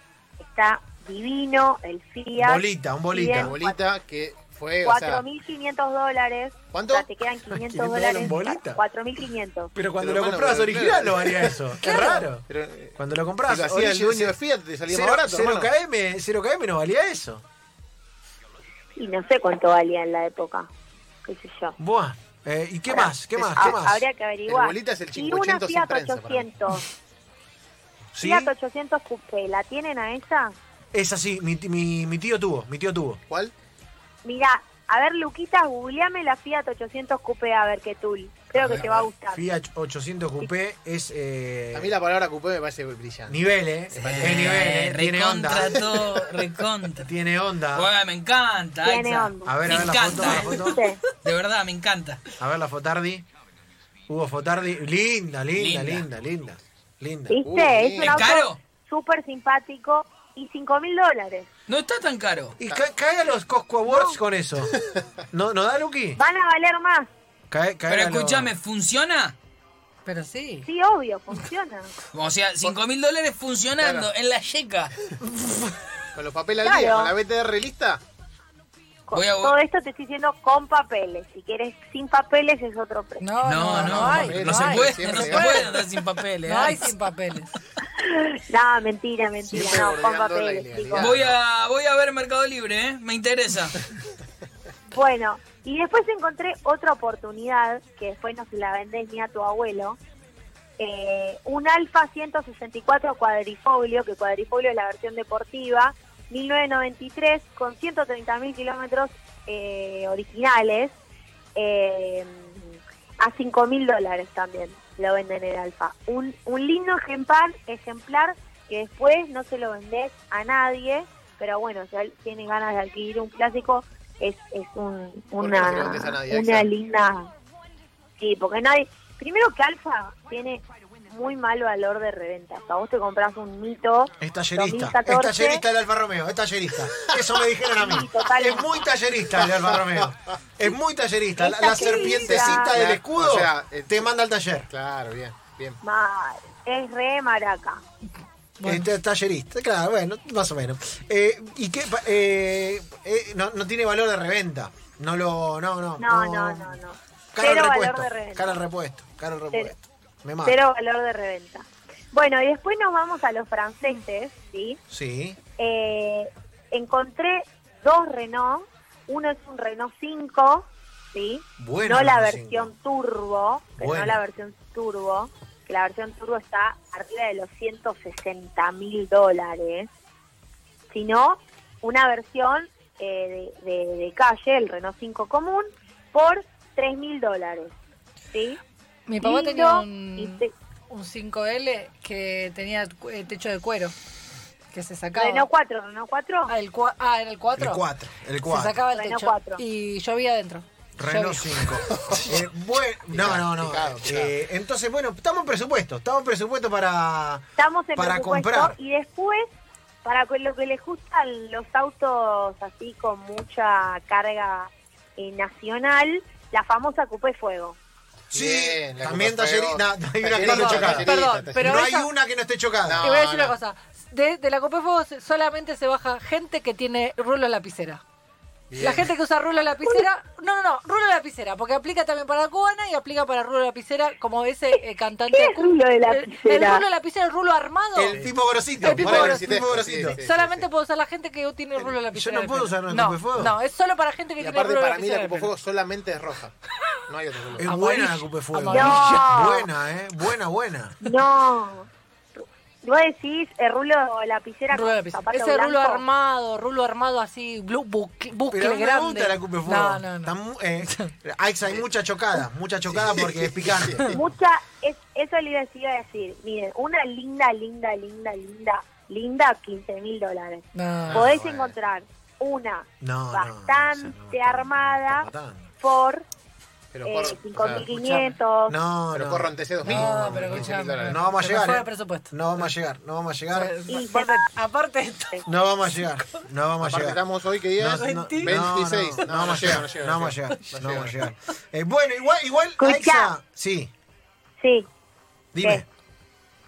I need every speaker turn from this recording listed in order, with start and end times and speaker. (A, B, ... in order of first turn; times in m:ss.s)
0:00.4-0:03.8 A
0:02.4-0:03.5 B
0:03.3-0:05.2 C
0:04.8-0:09.7 A
0:06.7-0:07.1 C
0:07.5-0:08.8 B
0:09.7-0:14.4 B
0:10.0-0:13.0 C
0:11.8-0:12.3 D
0:13.5-0:15.7 C
0:14.9-0:17.4 B
0:19.0-0:20.7 A
0:21.2-0:21.8 A
0:21.8-0:24.0 B
0:22.9-0:26.8 A
0:23.4-0:23.8 C
0:24.5-0:26.5 C
0:28.1-0:28.5 B
0:28.2-0:30.6 A
0:30.9-0:33.2 B
0:34.2-0:39.5 A
0:39.3-0:41.9 B
0:41.7-0:43.4 C
0:43.3-0:46.0 B
0:44.0-0:44.6 C
0:44.0-0:47.1 E
0:47.0-0:47.9 B
0:47.7-0:52.2 E
0:48.8-0:49.6 A
0:49.4-0:50.8 B
0:50.2-0:51.0 A
0:52.4-0:53.2 B
0:54.1-0:57.4 B
0:55.6-0:56.1 E
0:57.3-1:01.5 A
0:57.4-0:58.4 C
0:58.0-0:58.6 E
1:01.7-1:02.6 E
1:02.6-1:04.8 B
1:03.9-1:04.2 A
1:05.3-1:06.2 B
1:06.2-1:07.1 A
1:07.5-1:08.5 B
1:07.9-1:09.3 E
1:10.0-1:10.7 D
1:10.6-1:11.9 A
1:12.1-1:14.9 E
1:13.8-1:14.1 C
1:15.2-1:15.7 B
1:16.1-1:18.0 C
1:16.6-1:17.1 A
1:19.1-1:23.2 A
1:19.1-1:19.5 E
1:23.2-1:25.7 D
1:23.4-1:26.9 E
1:23.6-1:25.9 C
1:26.4-1:27.5 D
1:27.9-1:31.1 A
1:29.5-1:31.4 C
1:31.0-1:33.8 E
1:34.9-1:40.0 A
1:40.8-1:51.0 A
1:51.6-2:07.3 A
2:05.4-2:06.7 C
2:08.2-2:15.6 A
2:14.2-2:24.7 B
2:17.0-2:17.4 C
2:17.7-2:18.8 A
2:19.3-2:20.3 C
2:21.4-2:22.8 A
2:21.8-2:24.1 C
2:24.7-2:25.8 C
2:25.8-2:27.8 A
2:28.6-2:28.9 D
2:28.6-2:36.8 B
2:36.0-2:38.6 A
2:37.3-2:40.6 B
2:40.4-2:44.8 A
2:44.9-2:45.4 B
2:45.6-2:59.9 A
2:51.6-2:52.7 B
2:53.8-2:54.2 B
3:00.9-3:07.8 A
3:08.3-3:08.6 A
3:09.1-3:13.9 D
3:09.2-3:10.5 A
3:14.7-3:15.5 D
3:15.1-3:16.5 A
3:16.5-3:17.8 D
3:17.6-3:18.8 B
3:18.4-3:21.9 D
3:18.9-3:19.6 A
3:21.0-3:28.8 B
3:21.8-3:22.4 C
3:23.1-3:24.3 C
3:27.6-3:29.5 A
3:30.0-3:37.8 A
3:38.3-3:41.9 C
3:38.3-3:43.1 B
3:40.4-3:42.1 D
3:42.8-3:43.6 C
3:43.0-3:48.0 D
3:48.7-3:49.1 C
3:48.8-3:58.2 D
3:54.7-3:56.8 A
3:57.9-4:00.2 B
3:58.1-4:00.6 C
3:58.8-4:05.5 D
4:01.8-4:03.5 B
4:04.4-4:06.5 C
4:07.1-4:07.8 C
4:07.6-4:11.0 B
4:07.6-4:09.7 D
4:08.7-4:09.7 A
4:11.0-4:16.0 A
4:14.7-4:21.1 D
4:18.5-4:24.2 B
4:22.9-4:24.2 C
4:24.1-4:35.3 A
4:30.7-4:31.3 D
4:31.0-4:31.7 C
4:33.0-4:35.7 B
4:35.8-4:36.2 A
4:36.9-4:37.9 C
4:37.0-4:38.8 A
4:37.9-4:38.4 D
4:38.7-4:43.8 B
4:39.1-4:41.6 C
4:39.8-4:42.3 D
4:43.5-4:45.4 D
4:43.9-4:44.5 A
4:45.4-4:47.2 B
4:46.8-4:51.2 C
4:47.8-4:53.9 B
4:47.9-4:49.6 D
4:52.8-4:53.3 A
4:54.6-4:54.9 A
4:55.5-4:55.8 B